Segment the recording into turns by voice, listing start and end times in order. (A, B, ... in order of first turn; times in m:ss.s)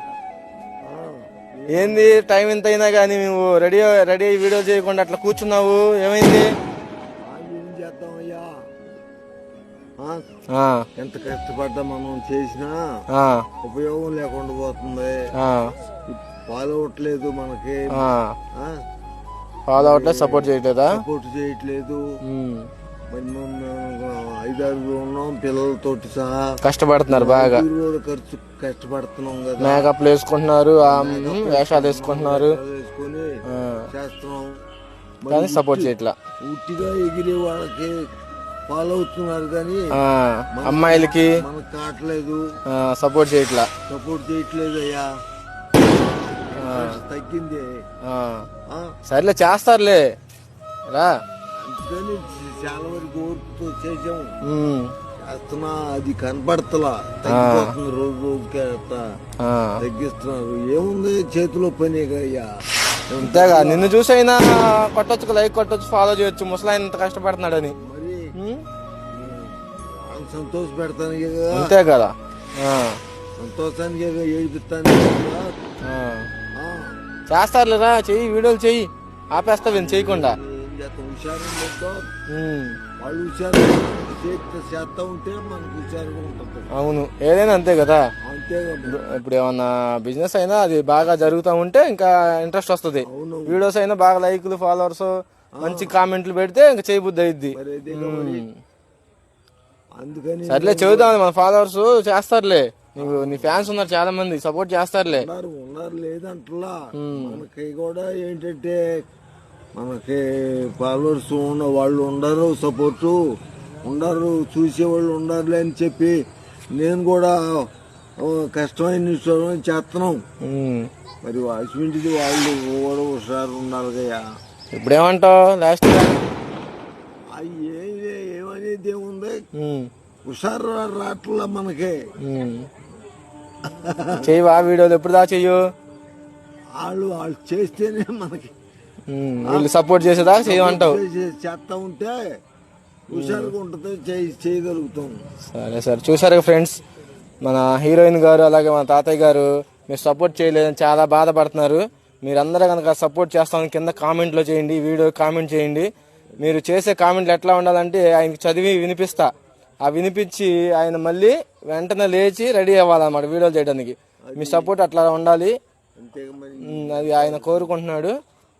0:00.8-0:02.2 A
0:01.7-0:06.5 B
0:07.2-0:08.5 A
0:10.5-0:10.8 B
0:11.0-0:12.8 A
0:13.1-0:13.5 B
0:13.6-0:15.2 A
0:15.3-0:15.7 B
0:16.1-0:18.0 A
0:17.9-0:18.4 B
0:19.7-0:21.0 B
0:19.8-0:22.0 A
0:22.2-0:22.7 B
0:23.1-0:26.5 A
0:26.6-0:27.6 B
0:27.1-0:29.9 A
0:29.6-0:32.6 B
0:30.8-0:33.3 A
0:33.5-0:33.9 B
0:33.9-0:34.5 A
0:35.2-0:35.9 A
0:35.3-0:36.1 B
0:36.4-0:38.1 A
0:38.7-0:39.9 A
0:39.9-0:41.4 B
0:40.6-0:42.4 A
0:42.7-0:43.7 B
0:43.9-0:45.1 A
0:45.8-0:47.7 A
0:46.6-0:47.0 B
0:48.0-0:48.5 B
0:48.7-0:48.9 A
0:49.1-0:50.0 B
0:51.6-0:54.3 A
0:54.4-0:54.9 B
0:55.2-0:59.0 A
0:57.3-0:57.7 B
0:59.4-0:59.8 B
0:59.8-1:02.5 A
1:03.1-1:03.9 A
1:03.2-1:07.7 B
1:07.8-1:08.3 A
1:08.4-1:08.6 B
1:09.1-1:11.7 A
1:11.5-1:13.0 B
1:13.4-1:15.6 A
1:15.8-1:16.3 B
1:16.5-1:17.0 A
1:17.3-1:20.4 B
1:19.6-1:22.1 A
1:22.3-1:22.8 B
1:23.0-1:26.7 A
1:26.7-1:28.0 B
1:28.2-1:29.0 A
1:28.9-1:38.5 B
1:33.0-1:33.6 A
1:35.6-1:35.9 A
1:37.5-1:38.4 A
1:40.0-1:41.1 A
1:40.5-1:45.3 B
1:43.0-1:43.7 A
1:45.1-1:48.8 A
1:46.9-1:47.4 B
1:49.8-1:53.2 A
1:53.8-1:56.2 A
1:56.7-1:57.6 A
1:58.2-2:00.2 A
2:00.4-2:00.9 B
2:01.2-2:04.2 A
2:04.7-2:06.2 B
2:07.3-2:09.4 A
2:09.6-2:09.9 B
2:10.2-2:12.1 A
2:12.2-2:12.7 B
2:13.7-2:14.3 A
2:14.2-2:15.6 B
2:16.8-2:18.5 A
2:19.1-2:21.0 B
2:19.4-2:22.3 A
2:23.1-2:25.2 A
2:23.1-2:23.5 B
2:25.5-2:26.8 B
2:27.4-2:39.3 B
2:39.8-2:45.5 B
2:44.3-2:44.7 A
2:46.0-2:47.7 A
2:46.6-2:48.1 B